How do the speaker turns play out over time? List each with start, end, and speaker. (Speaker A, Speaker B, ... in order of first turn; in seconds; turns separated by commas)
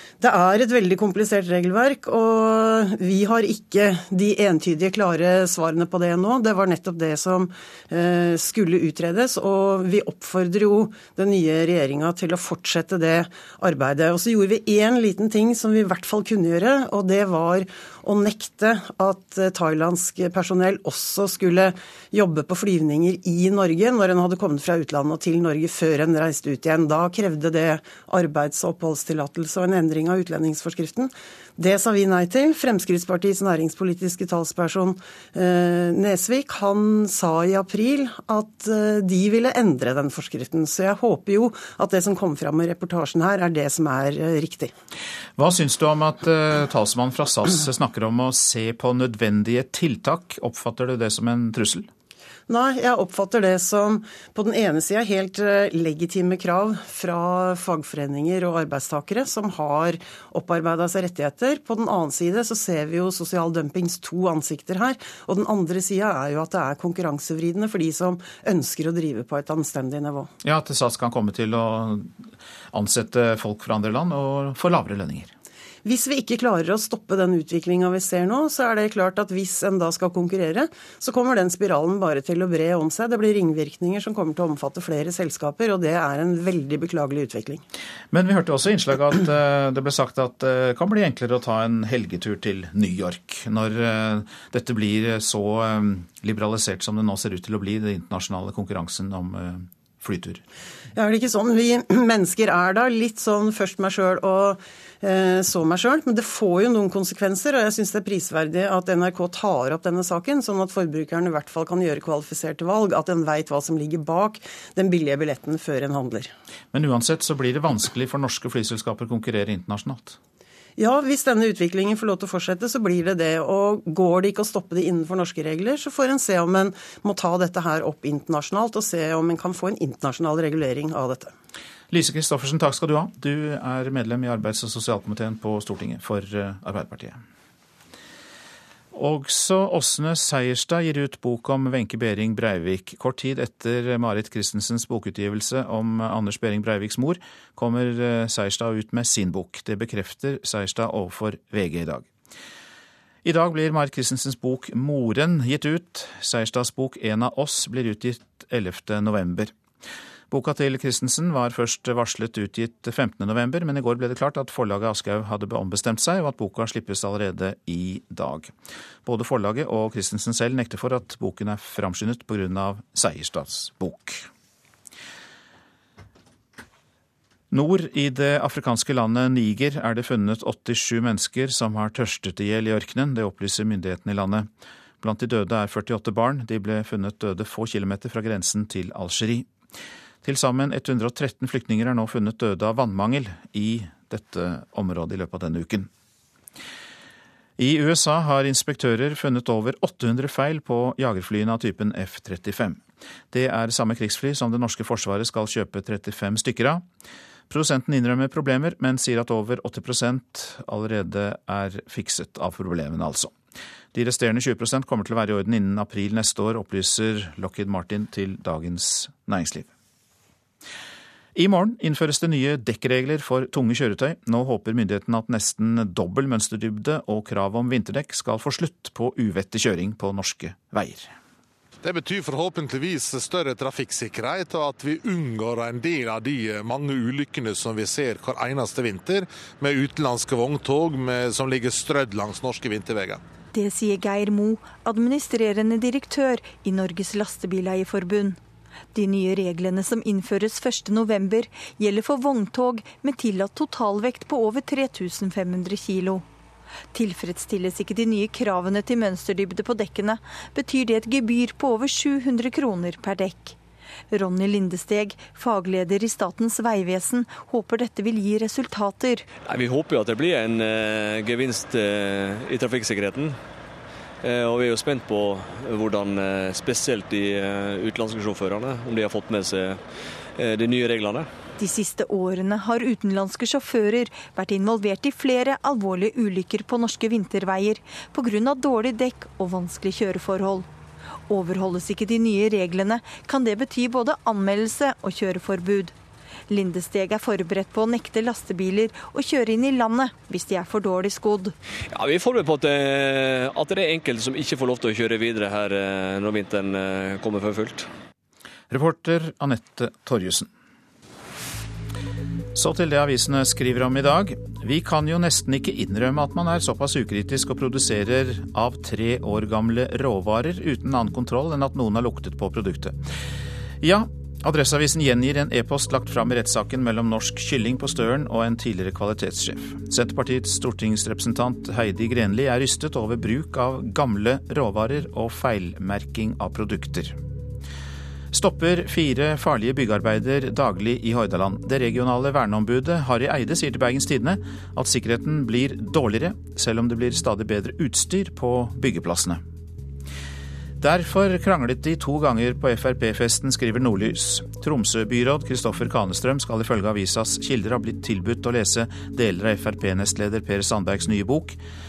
Speaker A: 0.2-44.7, Speaker B: 45.4-51.9, Speaker A: 52.5-70.3, Speaker B: 70.4-72.2, Speaker B: 72.7-75.3, Speaker A: 75.8-87.6, Speaker B: 88.1-100.4, Speaker A: 101.0-116.3, Speaker B: 116.7-120.2, Speaker A: 120.8-131.3, Speaker B: 131.9-137.2, Speaker B: 138.9-152.1, Speaker B: 153.2-159.5, Speaker B: 160.3-168.5, Speaker B: 169.1-174.3, Speaker B: 177.5-184.5, Speaker B: 185.0-189.5, Speaker B: 190.2-195.9, Speaker B: 197.6-202.8, Speaker B: 203.3-206.8, Speaker B: 207.5-213.3, Speaker B: 213.9-219.7, Speaker B: 221.3-231.1, Speaker C: 231.8-243.2, Speaker D: 243.5-248.4, Speaker D: 248.9-256.2, Speaker D: 256.9-263.6, Speaker D: 264.1-269.3, Speaker E: 269.4-273.4, Speaker E: 274.2-279.8, Speaker E: 280.4-281.3, Speaker D: 281.6-290.7, Speaker D: 291.3-295.9, Speaker D: 296.5-301.5, Speaker E: 301.9-307.9, Speaker B: 308.7-310.5, Speaker B: 312.6-323.0, Speaker B: 323.8-337.2, Speaker B: 338.3-349.4, Speaker B: 350.8-361.6